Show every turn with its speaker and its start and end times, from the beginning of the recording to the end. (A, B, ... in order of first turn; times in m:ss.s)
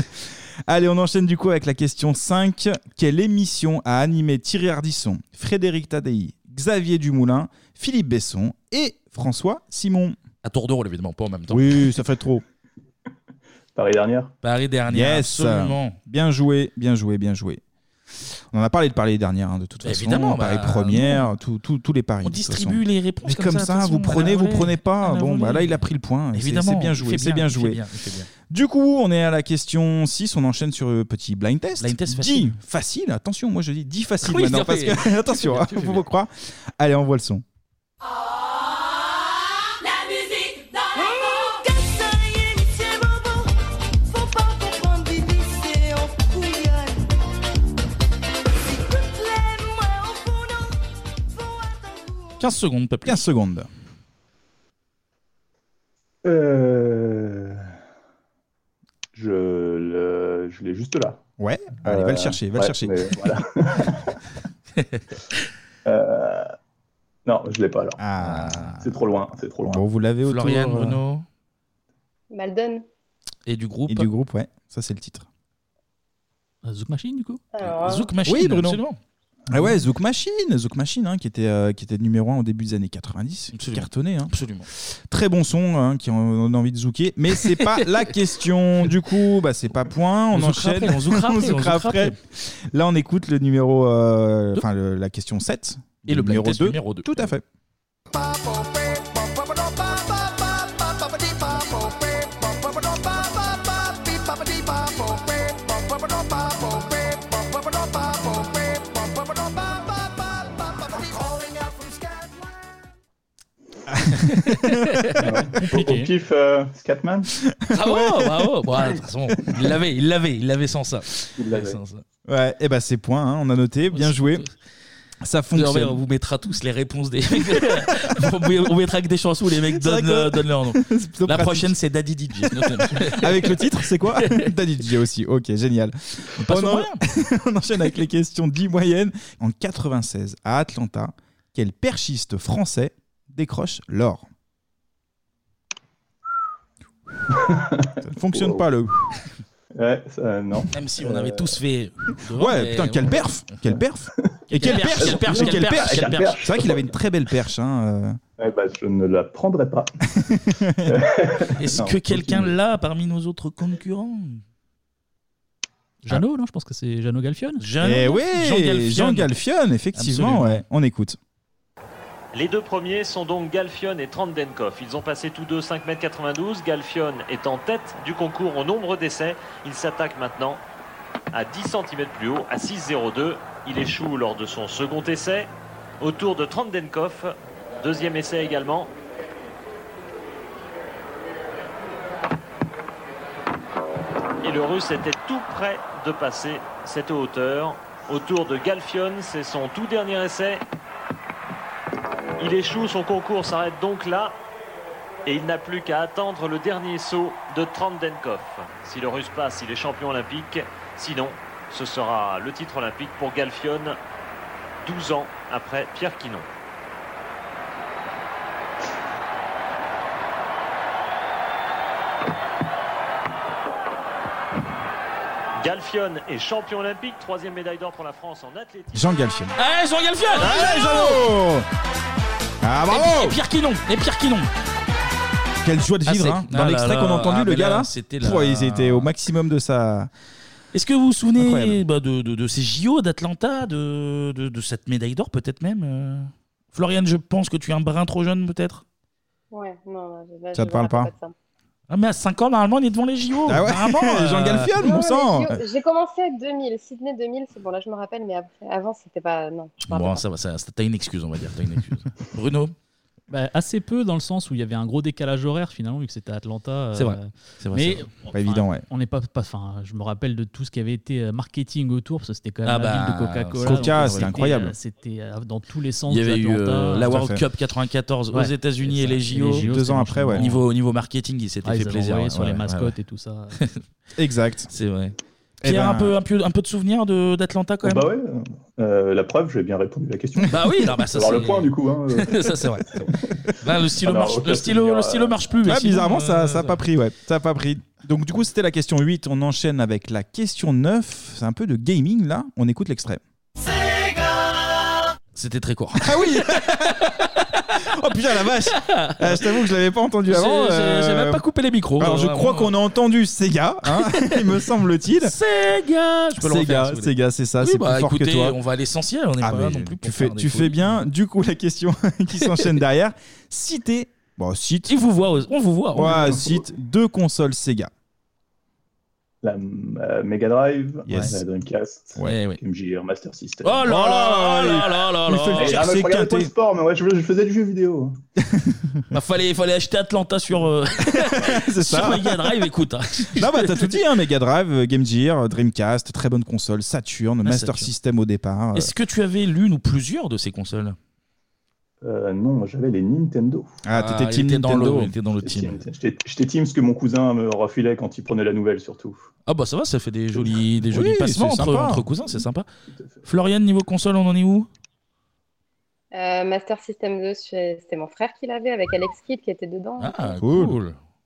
0:00.7-0:10.2 A
0:10.4-0:11.8 B
0:11.5-0:12.4 A
0:13.8-0:14.3 C
0:14.4-0:16.0 B
0:14.9-0:17.6 A
0:18.5-0:27.8 A
0:19.8-0:21.3 B
0:22.2-0:25.8 B
0:26.3-0:28.3 B
0:28.5-0:37.4 A
0:31.8-0:32.6 B
0:34.2-0:36.1 B
0:40.9-0:43.5 D
0:44.1-0:47.0 D
0:48.7-0:50.7 D
0:51.4-0:52.3 D
0:52.4-0:53.2 B
0:53.1-0:53.7 A
0:56.2-0:57.7 C
0:59.1-1:01.2 C
1:01.4-1:03.1 A
1:01.8-1:04.2 C
1:04.8-1:05.0 B
1:05.9-1:06.5 C
1:07.3-1:08.0 C
1:08.0-1:08.7 A
1:08.2-1:08.9 B
1:08.8-1:09.8 C
1:09.7-1:11.0 A
1:10.3-1:11.2 B
1:12.3-1:12.8 E
1:13.5-1:14.1 B
1:13.9-1:15.3 A
1:16.6-1:17.4 F
1:17.5-1:18.1 E
1:17.6-1:19.0 B
1:18.3-1:18.8 A
1:19.5-1:37.4 A
1:23.5-1:24.7 B
1:30.3-1:32.2 B
1:36.1-1:37.3 B
1:53.9-1:54.7 A
1:54.2-1:55.3 B
1:55.2-1:57.3 C
1:55.6-1:56.1 F
1:57.5-1:58.3 A
1:57.7-2:02.0 B
2:01.4-2:01.8 C
2:02.3-2:04.4 A
2:03.9-2:04.6 B
2:05.2-2:06.0 A
2:05.5-2:14.5 B
2:09.7-2:11.7 A
2:12.4-2:24.3 A
2:16.4-2:17.0 B
2:27.3-2:28.6 C
2:28.0-2:28.9 A
2:29.8-2:31.6 C
2:30.7-2:33.6 B
2:32.3-2:38.2 A
2:34.2-2:36.9 C
2:34.5-2:36.4 B
2:38.4-2:39.9 C
2:40.2-2:41.0 A
2:40.9-2:42.5 C
2:41.6-2:44.4 B
2:46.0-2:47.6 F
2:47.6-2:49.3 B
2:47.8-2:51.2 A
2:49.9-2:50.6 B
2:52.3-3:00.6 G
3:01.3-3:08.9 G
3:14.4-3:20.6 G
3:22.4-3:24.4 G
3:25.3-3:34.0 G
3:34.8-3:36.5 G
3:45.6-3:49.1 G
3:48.9-3:49.6 A
3:49.6-3:51.2 B
3:50.4-3:51.7 A
3:52.6-3:53.4 A
3:52.9-3:54.5 B
3:55.6-4:00.1 A
3:56.1-3:59.1 B
4:00.7-4:08.8 B
4:01.4-4:01.8 A
4:09.5-4:11.3 E
4:10.5-4:11.1 A
4:11.9-4:14.7 B
4:13.5-4:15.6 A
4:14.8-4:20.2 E
4:19.8-4:22.8 B
4:23.3-4:37.2 F
4:27.0-4:28.1 B
4:28.3-4:28.8 A
4:32.6-4:34.6 B
4:33.6-4:34.7 A
4:36.1-4:39.6 B
4:37.1-4:37.4 A
4:38.3-4:40.6 F
4:39.4-4:40.5 A
4:40.4-4:42.9 B
4:41.6-4:43.6 F
4:44.2-4:44.7 A
4:44.7-4:48.1 B
4:45.6-4:46.2 A
4:47.8-4:53.4 C
4:50.5-4:53.1 B
4:53.6-4:56.8 B
4:54.0-4:55.4 C
4:55.6-5:03.2 A
5:05.4-5:07.6 B
5:06.0-5:07.1 A
5:07.8-5:11.4 A
5:08.8-5:09.6 B
5:10.3-5:12.7 B
5:12.0-5:15.3 A
5:13.9-5:14.6 B
5:15.2-5:21.1 B
5:16.4-5:18.6 A
5:19.4-5:24.9 A
5:24.9-5:26.4 B
5:26.0-5:27.9 A
5:26.1-5:26.6 C
5:29.4-5:33.9 C
5:31.1-5:31.4 A
5:32.2-5:32.6 B
5:33.6-5:35.8 B
5:33.9-5:36.5 A
5:35.6-5:38.2 C
5:38.4-5:39.0 A
5:39.1-5:43.9 B
5:41.2-5:42.5 A
5:43.4-5:48.9 A
5:47.4-5:47.9 B
5:48.8-5:51.0 B
5:52.0-5:53.8 C
5:53.8-5:55.1 A
5:53.9-5:55.8 B
5:55.4-5:59.2 C
5:59.5-6:02.7 B
6:00.9-6:02.1 A
6:02.9-6:03.2 C
6:03.2-6:04.7 B
6:06.1-6:10.4 E
6:10.0-6:11.0 B
6:10.4-6:10.8 A